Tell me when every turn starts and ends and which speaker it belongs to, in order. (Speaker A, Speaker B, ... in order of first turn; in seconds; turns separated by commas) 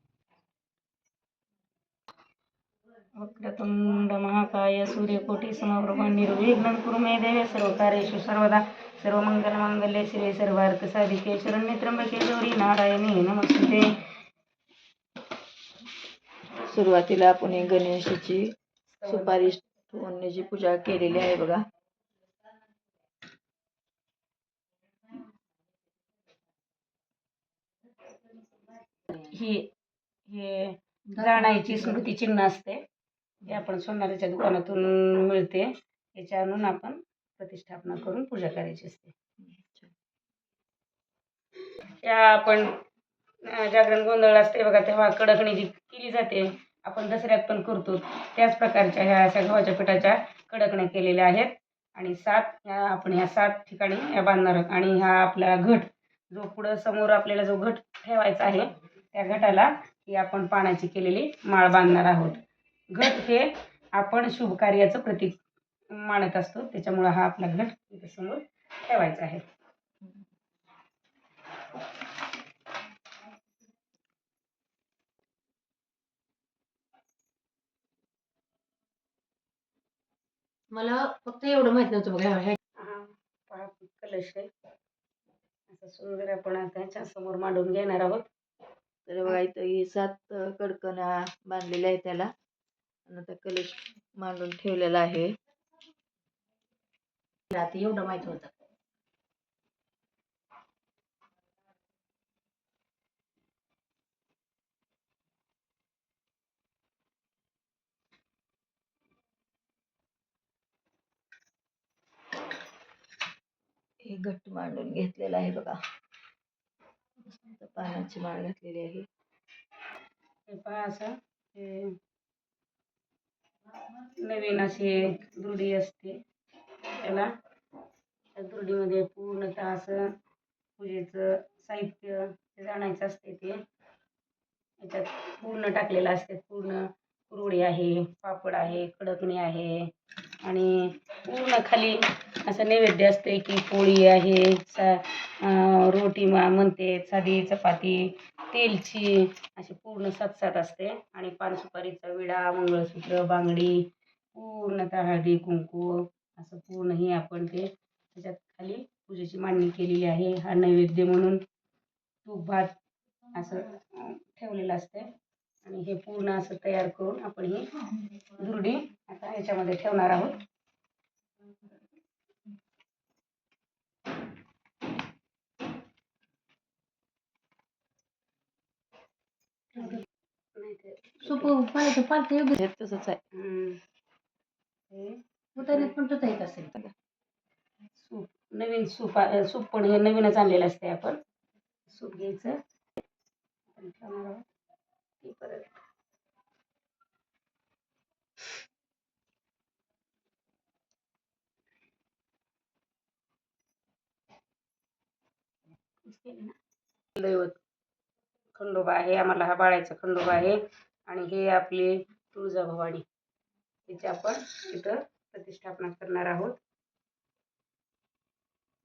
Speaker A: 3.1-14.0, Speaker B: 16.7-18.5, Speaker A: 19.0-19.4, Speaker B: 19.0-21.6, Speaker A: 29.1-29.7, Speaker A: 30.2-32.8, Speaker C: 31.1-32.0, Speaker A: 33.4-39.1, Speaker B: 39.4-39.9, Speaker A: 42.0-42.7, Speaker A: 43.5-65.4, Speaker A: 65.9-69.4, Speaker C: 80.7-82.6, Speaker A: 82.8-84.5, Speaker A: 85.7-88.3, Speaker B: 89.1-92.3, Speaker B: 93.1-95.3, Speaker C: 97.5-98.5, Speaker B: 114.0-115.8, Speaker B: 117.4-119.0, Speaker A: 120.5-122.0, Speaker A: 124.2-126.2, Speaker A: 126.9-127.3, Speaker A: 128.3-130.1, Speaker A: 130.8-133.6, Speaker A: 134.8-139.9, Speaker A: 140.4-161.4, Speaker A: 162.2-162.7, Speaker A: 163.3-165.1, Speaker A: 165.6-167.7, Speaker A: 168.3-170.4, Speaker C: 179.7-180.0, Speaker A: 180.6-181.5, Speaker C: 181.2-182.6, Speaker B: 182.6-183.2, Speaker A: 183.3-183.8, Speaker A: 184.9-185.9, Speaker C: 185.6-186.7, Speaker A: 188.0-191.2, Speaker A: 191.9-192.6, Speaker A: 193.7-194.4, Speaker A: 195.2-195.7, Speaker A: 206.0-206.5, Speaker A: 207.2-207.6, Speaker A: 208.5-213.0, Speaker A: 213.9-216.6